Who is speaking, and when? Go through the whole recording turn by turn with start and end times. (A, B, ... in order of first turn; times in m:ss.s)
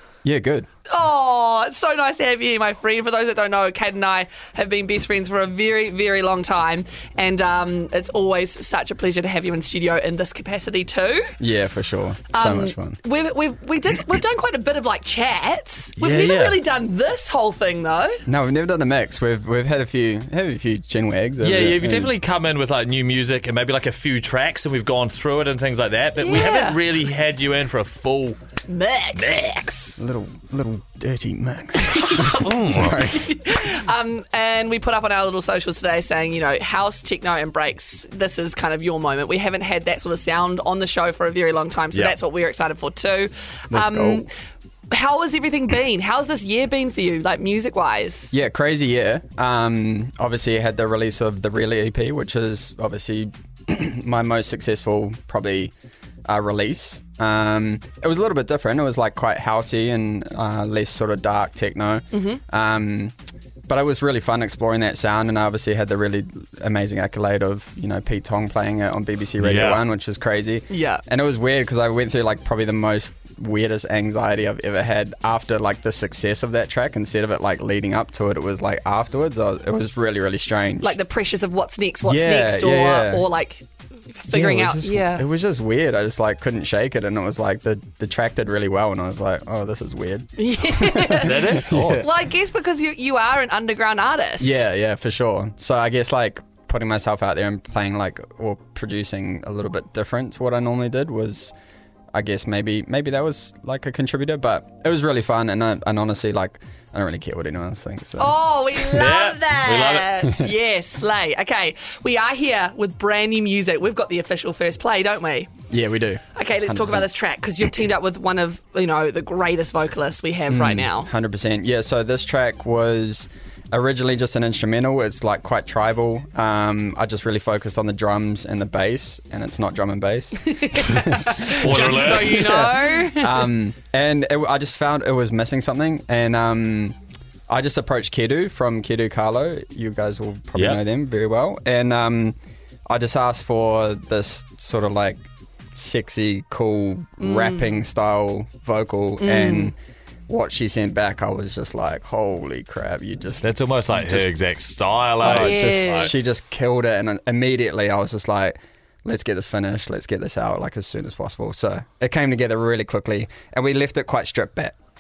0:00.2-0:00.7 A
0:00.9-0:11.4 B
0:11.4-0:13.0 A
0:12.3-0:18.2 B
0:16.0-0:16.6 C
0:18.3-0:22.1 A
0:21.4-0:28.4 C
0:26.2-0:26.8 B
0:28.7-0:29.5 B
0:29.2-0:29.9 C
0:30.0-0:33.3 A
0:31.9-0:32.5 B
0:32.1-0:33.1 C
0:33.1-0:44.3 B
0:43.7-0:44.3 A
0:44.9-0:48.3 B
0:48.3-0:55.7 A
0:56.3-1:03.2 A
1:02.1-1:02.4 B
1:03.7-1:21.0 A
1:09.4-1:09.8 C
1:10.7-1:11.0 B
1:20.8-1:25.3 B
1:22.0-1:23.3 A
1:24.3-1:32.1 A
1:30.4-1:34.7 B
1:31.2-1:32.1 C
1:34.4-1:41.5 A
1:42.1-1:49.0 A
1:48.2-1:55.5 B
1:48.9-1:50.4 C
1:55.7-1:57.1 A
1:56.4-2:01.1 B
2:00.5-2:17.0 A
2:10.4-2:13.5 B
2:10.8-2:12.7 C
2:17.5-2:22.4 A
2:22.9-2:29.8 A
2:27.2-2:27.7 B
2:29.2-2:29.7 B
2:30.3-2:34.3 A
2:33.4-2:36.1 C
2:35.2-2:44.8 A
2:35.2-2:36.3 B